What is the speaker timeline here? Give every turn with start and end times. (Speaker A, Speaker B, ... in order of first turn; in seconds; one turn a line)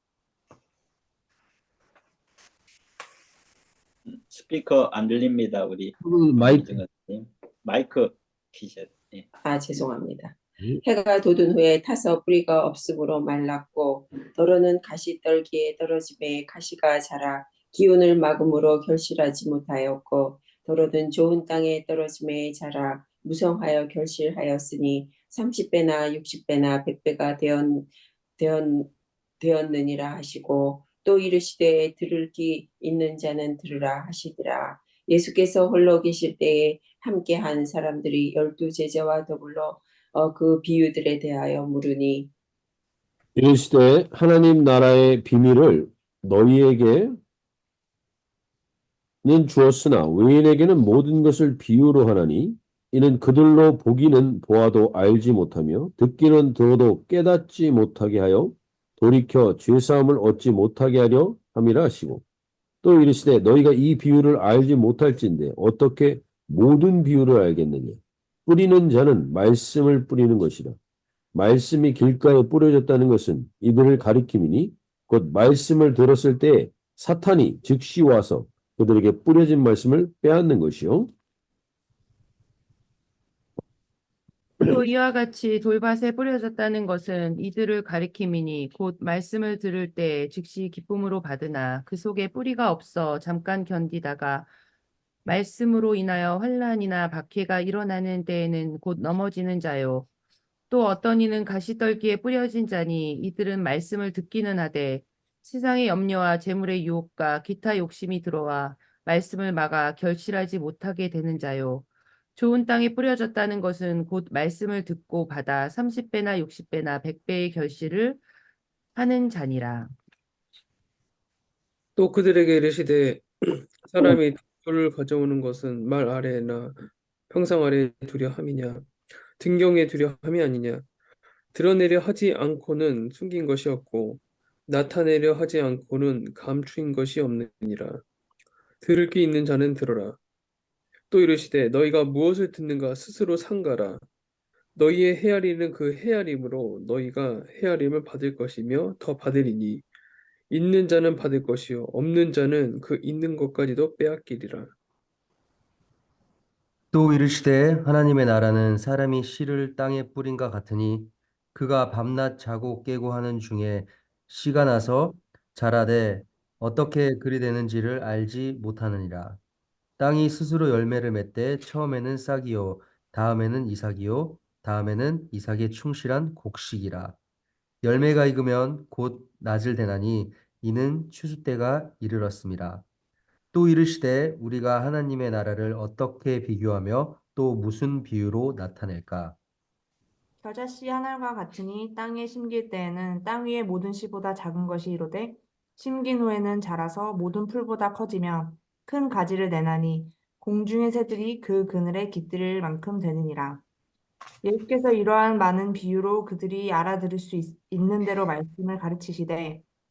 Speaker A: 4.1-9.3
Speaker B: 6.0-6.8
Speaker C: 9.4-42.3
Speaker B: 43.4-47.2
Speaker B: 49.2-62.2
Speaker B: 62.8-70.8
Speaker B: 71.3-81.1
Speaker D: 84.6-94.5
Speaker D: 95.2-100.1
Speaker D: 100.7-118.2
Speaker D: 119.0-119.9
Speaker E: 122.0-130.9
Speaker E: 131.5-138.0
Speaker E: 138.8-140.2
Speaker E: 141.1-144.1
Speaker E: 144.8-149.9
Speaker E: 150.5-154.7
Speaker F: 156.9-169.4
Speaker F: 170.0-177.2
Speaker F: 177.8-182.8
Speaker F: 183.5-189.4
Speaker G: 190.4-203.6
Speaker G: 204.4-209.6